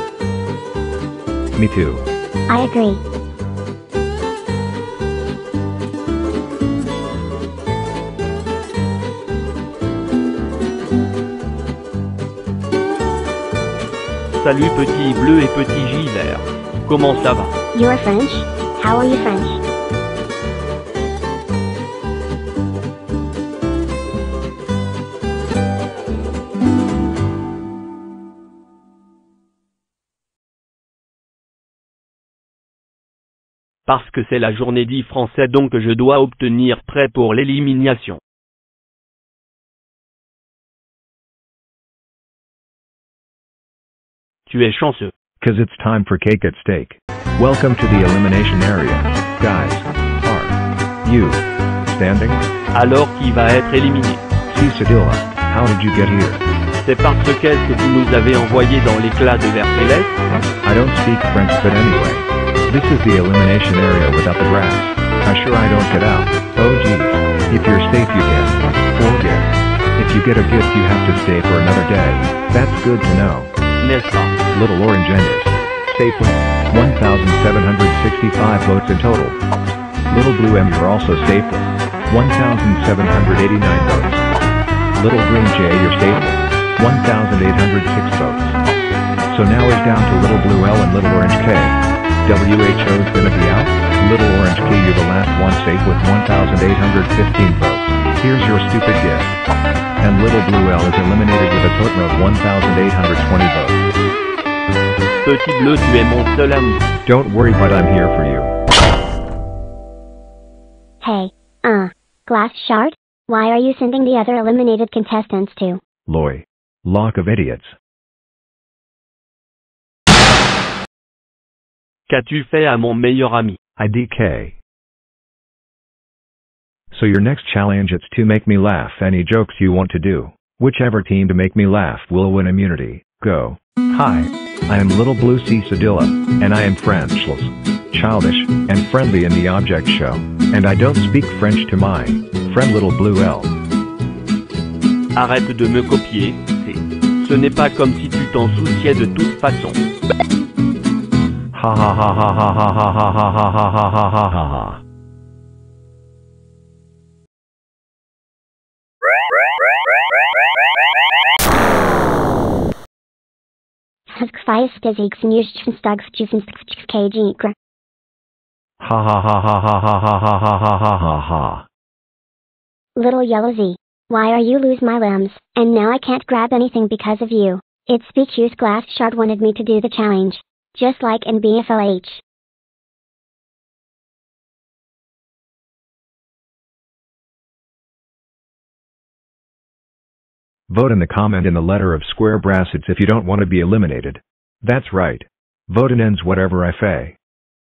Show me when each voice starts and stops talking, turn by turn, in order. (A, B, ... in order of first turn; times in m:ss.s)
0:01.6-0:02.1 A
0:02.5-0:03.0 B
0:14.3-0:17.5 C
0:17.7-0:19.6 B
0:33.9-0:38.2 C
0:44.5-0:45.1 C
0:45.4-0:52.4 A
0:52.7-0:54.2 C
0:54.5-0:56.4 A
0:56.8-1:00.2 C
1:00.6-1:13.5 A
1:13.8-1:14.4 C
1:14.5-1:19.4 A
1:20.1-1:24.2 A
1:25.0-1:28.6 A
1:29.3-1:39.4 A
1:40.0-1:43.8 A
1:45.2-1:46.8 C
1:47.0-1:48.5 A
1:51.0-1:55.8 B
1:56.1-1:57.8 A
2:02.1-2:03.6 C
2:03.8-2:04.6 A
2:06.9-2:23.5 A
2:25.2-2:29.8 C
2:31.5-2:34.8 A
2:44.1-2:47.6 B
2:48.8-2:51.7 A
2:53.0-3:02.2 B
3:10.7-3:17.2 A